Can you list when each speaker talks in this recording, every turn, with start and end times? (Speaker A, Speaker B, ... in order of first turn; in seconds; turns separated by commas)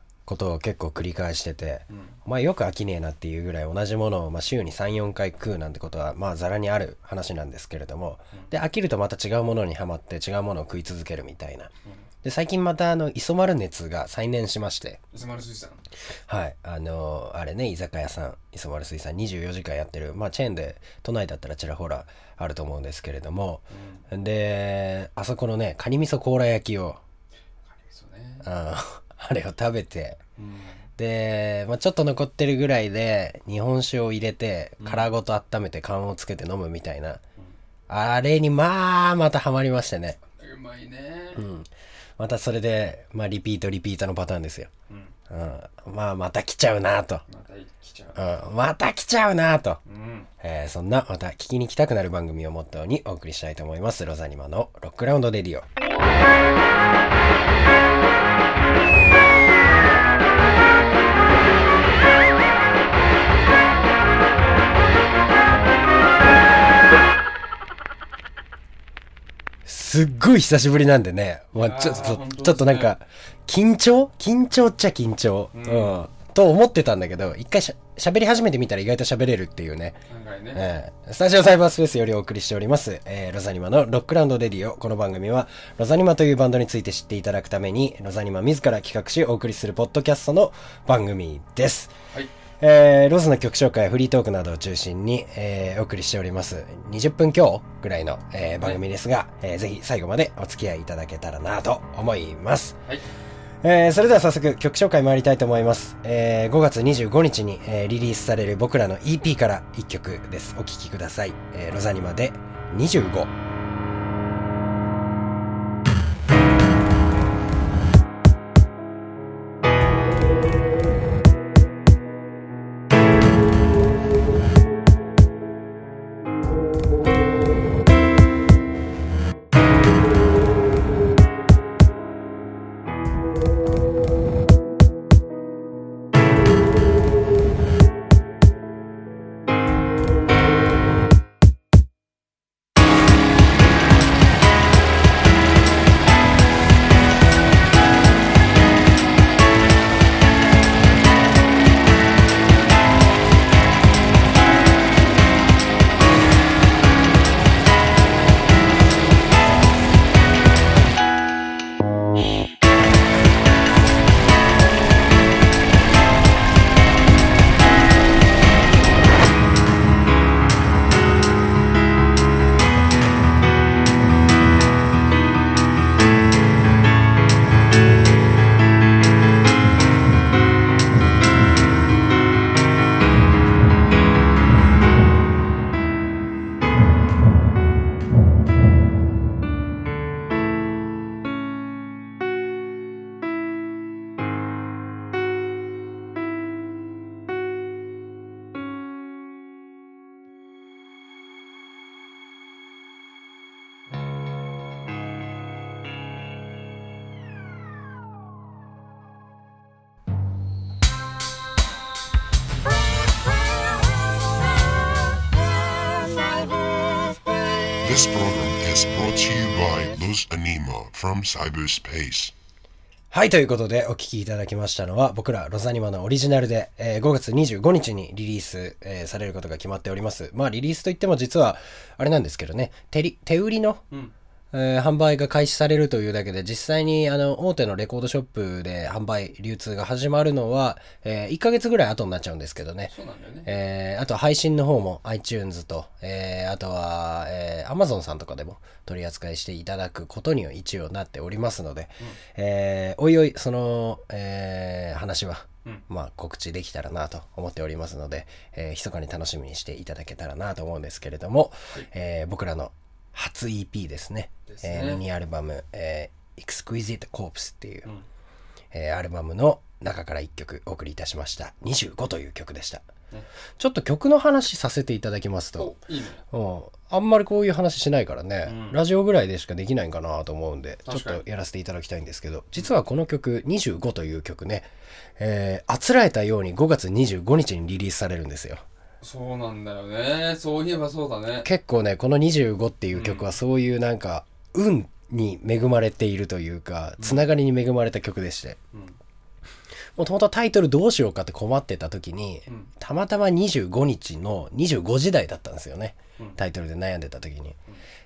Speaker A: 0.3-11.7, Speaker B: 1.9-2.2, Speaker A: 12.2-15.0, Speaker B: 15.1-15.8, Speaker A: 16.3-27.0, Speaker B: 23.7-24.1, Speaker B: 27.6-28.5, Speaker A: 28.4-30.2, Speaker B: 30.4-30.9, Speaker A: 31.0-37.2, Speaker B: 34.8-35.1, Speaker A: 37.9-40.2, Speaker B: 40.3-41.5, Speaker A: 41.4-44.7, Speaker B: 44.9-45.1, Speaker A: 45.3-47.2, Speaker B: 47.3-48.4, Speaker A: 48.1-49.8, Speaker B: 49.9-50.3, Speaker A: 50.4-55.7, Speaker A: 69.7-80.0, Speaker B: 71.5-73.0, Speaker B: 75.5-76.1, Speaker B: 80.1-80.7, Speaker A: 80.5-91.9, Speaker A: 92.6-102.8, Speaker A: 103.6-113.3, Speaker C: 217.8-222.3, Speaker A: 223.1-233.8, Speaker A: 234.5-242.9, Speaker B: 242.9-243.5, Speaker A: 243.5-267.9, Speaker B: 264.5-265.0, Speaker A: 268.7-272.9, Speaker A: 273.6-275.8, Speaker B: 275.6-276.2, Speaker A: 276.3-288.6, Speaker B: 278.4-278.8, Speaker B: 280.9-281.2, Speaker B: 289.0-291.5, Speaker A: 291.4-298.6, Speaker B: 292.9-293.4, Speaker B: 297.0-297.3, Speaker B: 298.7-299.0, Speaker A: 300.0-307.6